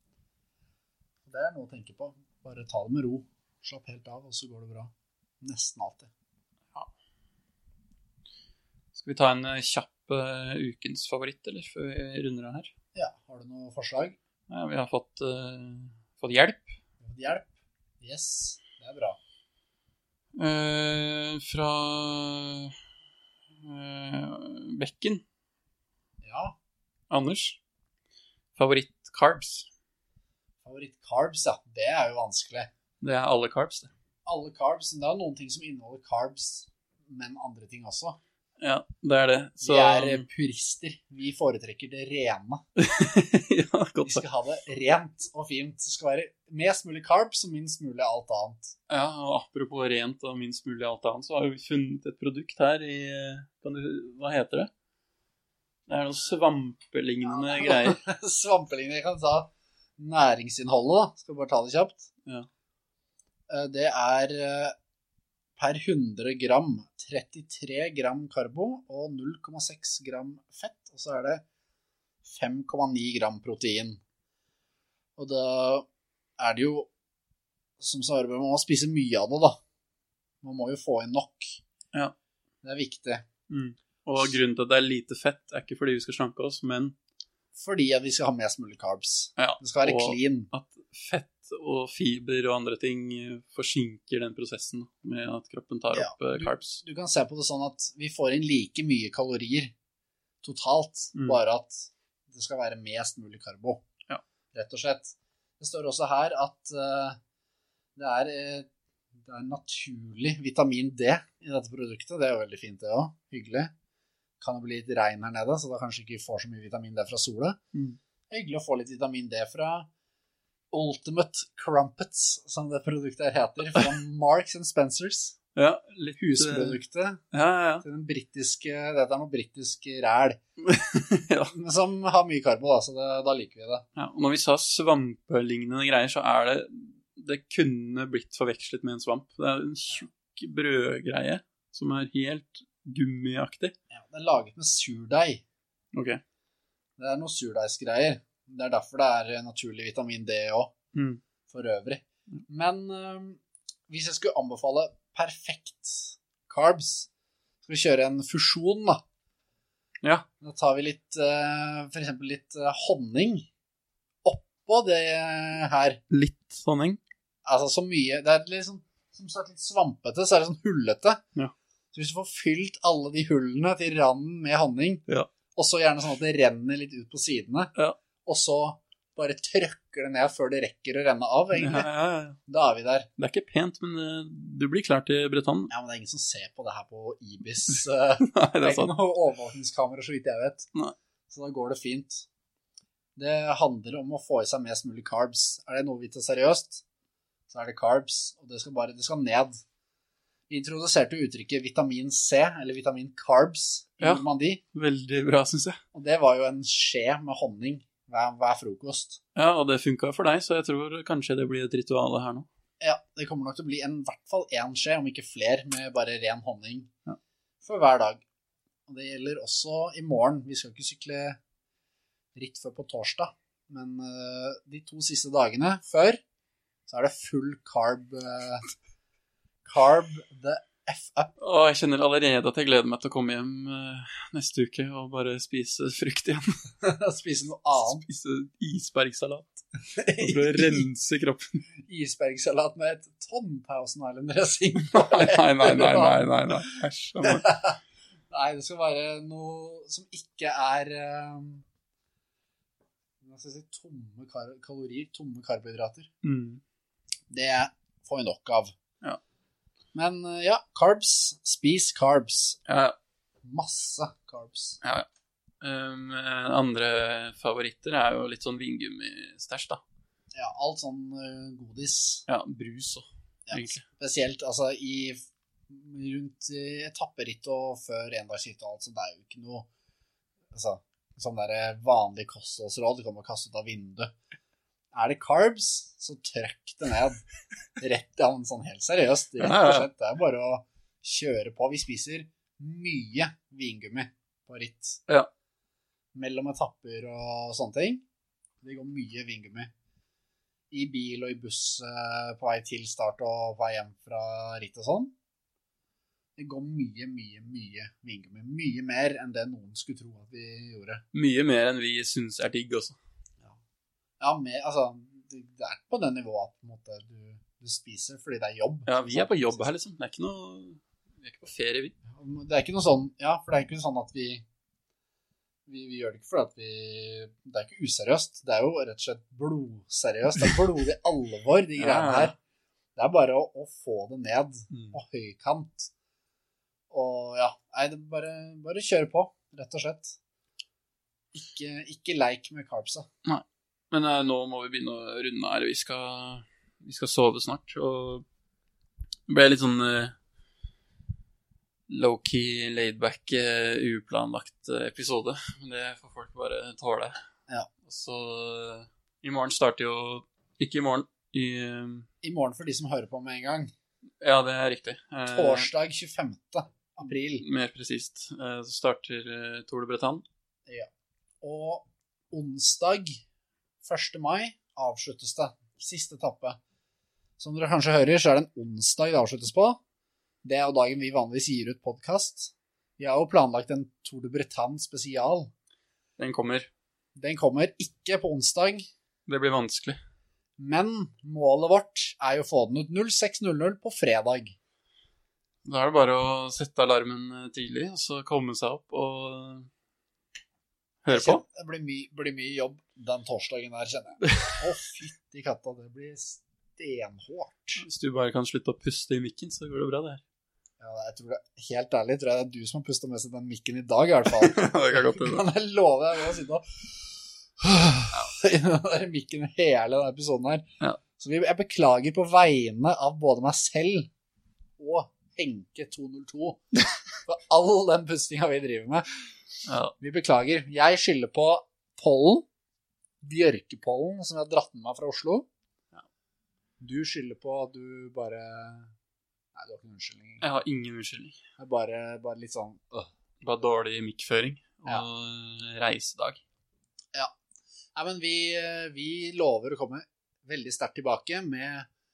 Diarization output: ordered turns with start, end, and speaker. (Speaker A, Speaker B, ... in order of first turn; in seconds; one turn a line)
Speaker A: 1.3-6.1
Speaker B: 8.9-12.7
Speaker A: 12.9-14.2
Speaker B: 14.5-16.8
Speaker A: 17.0-19.2
Speaker B: 20.4-22.8
Speaker B: 23.6-25.2
Speaker A: 26.2-26.6
Speaker B: 27.1-27.6
Speaker B: 28.6-29.7
Speaker A: 30.6-32.7
Speaker B: 33.0-33.9
Speaker A: 34.2-38.2
Speaker B: 38.6-40.3
Speaker A: 39.6-42.6
Speaker B: 42.8-44.2
Speaker A: 44.0-48.7
Speaker B: 48.9-54.7
Speaker B: 55.9-58.0
Speaker A: 57.2-62.1
Speaker A: 63.5-64.8
Speaker A: 65.6-71.4
Speaker A: 72.2-74.0
Speaker A: 75.2-75.9
Speaker A: 76.4-76.9
Speaker A: 77.8-79.6
Speaker A: 80.4-81.6
Speaker A: 82.6-83.3
Speaker B: 83.5-87.0
Speaker A: 87.5-90.5
Speaker B: 89.4-96.8
Speaker A: 95.9-99.7
Speaker A: 100.4-103.8
Speaker A: 104.5-107.2
Speaker A: 108.0-113.7
Speaker A: 114.4-117.6
Speaker A: 118.3-119.9
Speaker A: 120.7-125.4
Speaker B: 125.6-126.8
Speaker A: 126.2-127.2
Speaker B: 127.3-127.8
Speaker A: 127.8-130.4
Speaker B: 130.6-131.5
Speaker A: 131.5-133.9
Speaker B: 133.9-143.7
Speaker A: 143.9-145.4
Speaker B: 145.9-146.2
Speaker A: 147.0-150.7
Speaker B: 150.9-151.2
Speaker A: 151.5-157.1
Speaker A: 157.6-159.0
Speaker A: 160.4-163.5
Speaker A: 164.2-166.0
Speaker B: 166.1-167.0
Speaker A: 167.4-171.2
Speaker A: 171.9-175.0
Speaker A: 175.6-177.7
Speaker A: 178.2-181.9
Speaker B: 181.6-182.4
Speaker A: 182.5-183.1
Speaker B: 183.2-185.7
Speaker A: 185.7-190.7
Speaker B: 187.7-188.9
Speaker A: 191.3-192.3
Speaker A: 193.2-196.8
Speaker A: 197.5-199.6
Speaker A: 200.5-204.6
Speaker B: 204.0-205.8
Speaker A: 205.9-209.2
Speaker B: 209.3-212.5
Speaker A: 212.8-216.9
Speaker A: 217.6-218.2
Speaker A: 218.9-221.4
Speaker A: 222.3-226.2
Speaker A: 226.9-228.7
Speaker A: 229.7-231.3
Speaker B: 231.4-236.6
Speaker A: 236.8-238.0
Speaker B: 237.7-241.6
Speaker A: 240.0-240.8
Speaker A: 241.8-246.5
Speaker B: 244.8-247.5
Speaker A: 247.2-247.8
Speaker A: 248.3-251.7
Speaker A: 253.2-256.1
Speaker B: 256.2-256.6
Speaker A: 257.3-258.7
Speaker A: 259.9-262.6
Speaker B: 262.7-263.0
Speaker A: 263.4-264.8
Speaker B: 264.8-265.1
Speaker B: 265.6-269.8
Speaker A: 270.3-272.2
Speaker B: 272.3-273.8
Speaker A: 273.5-279.7
Speaker A: 280.5-284.1
Speaker A: 284.9-287.2
Speaker A: 287.8-295.0
Speaker B: 289.4-289.9
Speaker A: 296.1-298.0
Speaker A: 298.6-299.7
Speaker A: 300.7-305.1
Speaker A: 306.4-311.0
Speaker B: 311.1-313.0
Speaker A: 314.2-319.7
Speaker B: 318.9-321.9
Speaker A: 322.1-324.4
Speaker A: 325.7-332.3
Speaker B: 331.8-332.3
Speaker A: 333.0-335.9
Speaker B: 334.7-335.0
Speaker A: 336.9-340.2
Speaker A: 341.3-343.1
Speaker B: 343.2-348.2
Speaker B: 349.3-350.2
Speaker B: 351.9-357.2
Speaker B: 357.8-362.1
Speaker A: 362.2-363.7
Speaker B: 364.2-365.7
Speaker A: 365.3-367.4
Speaker B: 367.4-370.2
Speaker A: 371.4-373.2
Speaker A: 373.8-376.6
Speaker A: 377.4-379.8
Speaker A: 380.4-385.5
Speaker B: 386.2-386.7
Speaker A: 387.2-388.9
Speaker B: 389.3-390.0
Speaker A: 390.6-394.6
Speaker B: 395.6-399.7
Speaker B: 401.0-401.4
Speaker A: 401.1-407.8
Speaker B: 404.2-404.6
Speaker B: 407.8-410.2
Speaker A: 410.8-420.7
Speaker B: 414.4-415.4
Speaker A: 421.2-424.1
Speaker A: 424.8-426.7
Speaker A: 427.2-429.4
Speaker B: 429.7-429.9
Speaker A: 430.0-432.5
Speaker A: 433.2-435.5
Speaker A: 436.8-438.9
Speaker A: 439.6-440.4
Speaker B: 440.4-441.4
Speaker A: 441.6-443.1
Speaker B: 443.4-446.4
Speaker A: 447.9-451.9